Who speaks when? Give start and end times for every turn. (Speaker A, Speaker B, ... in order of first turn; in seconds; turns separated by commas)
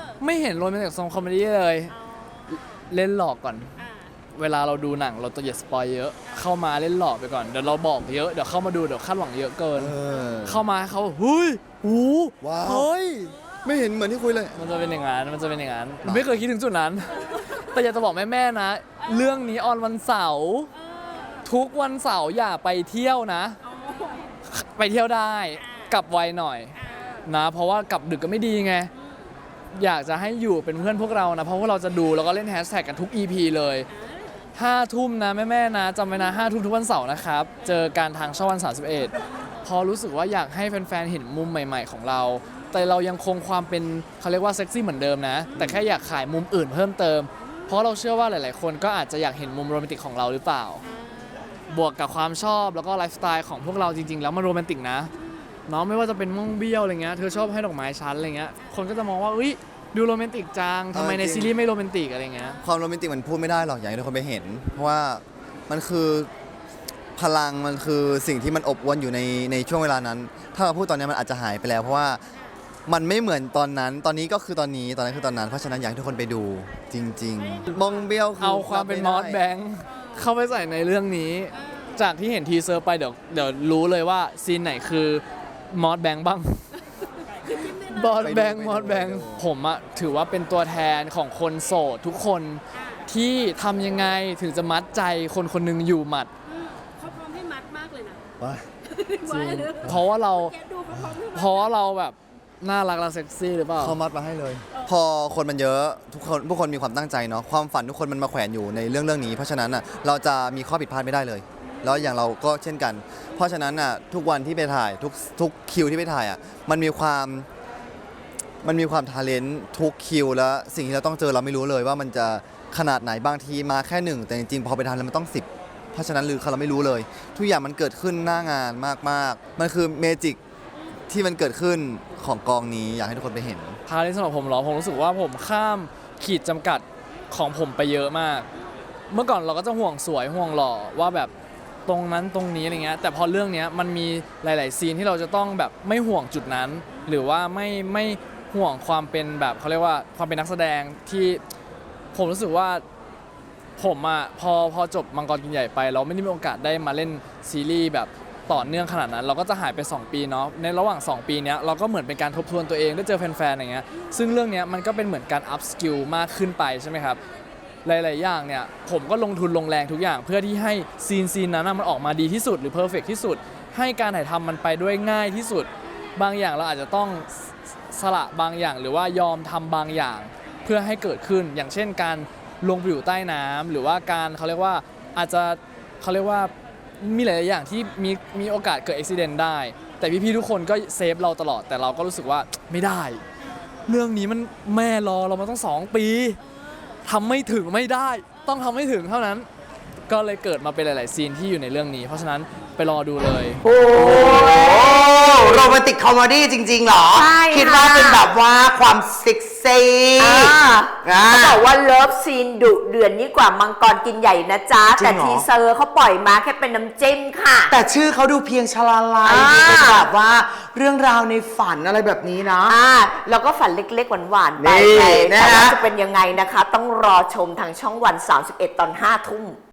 Speaker A: 0.2-1.9, Speaker A: 2.9-3.7, Speaker A: 4.3-13.3, Speaker B: 9.8-10.6, Speaker B: 12.4-14.6, Speaker A: 14.5-20.7, Speaker B: 16.0-16.3, Speaker A: 21.4-23.6, Speaker C: 23.9-24.1, Speaker A: 24.4-28.9, Speaker A: 29.7-33.9, Speaker A: 34.5-39.1, Speaker A: 39.6-50.8, Speaker B: 45.5-45.8, Speaker A: 51.7-55.1, Speaker A: 55.7-62.6, Speaker B: 60.9-61.5, Speaker B: 62.6-66.3, Speaker B: 67.2-72.2, Speaker B: 72.9-79.4, Speaker A: 78.4-86.6, Speaker C: 87.5-87.7, Speaker A: 87.6-96.3, Speaker B: 88.2-89.4, Speaker C: 96.8-98.2, Speaker B: 98.4-98.7, Speaker C: 99.0-99.4, Speaker B: 99.2-100.0, Speaker A: 99.3-100.5, Speaker C: 100.5-101.2, Speaker B: 100.9-101.2, Speaker A: 101.3-104.0, Speaker B: 103.8-117.5, Speaker B: 118.6-130.4, Speaker B: 131.1-133.8, Speaker A: 133.9-138.5, Speaker A: 139.1-141.3, Speaker A: 141.8-151.4, Speaker A: 152.1-152.8, Speaker A: 153.8-167.2, Speaker A: 167.8-193.2, Speaker A: 193.8-196.4, Speaker A: 197.0-199.5, Speaker A: 200.1-203.6, Speaker D: 203.6-211.6, Speaker E: 203.9-205.5, Speaker E: 207.1-208.2, Speaker E: 210.2-217.7, Speaker D: 214.8-215.5, Speaker D: 217.7-222.8, Speaker E: 219.2-220.1, Speaker E: 222.6-229.6, Speaker D: 224.6-225.9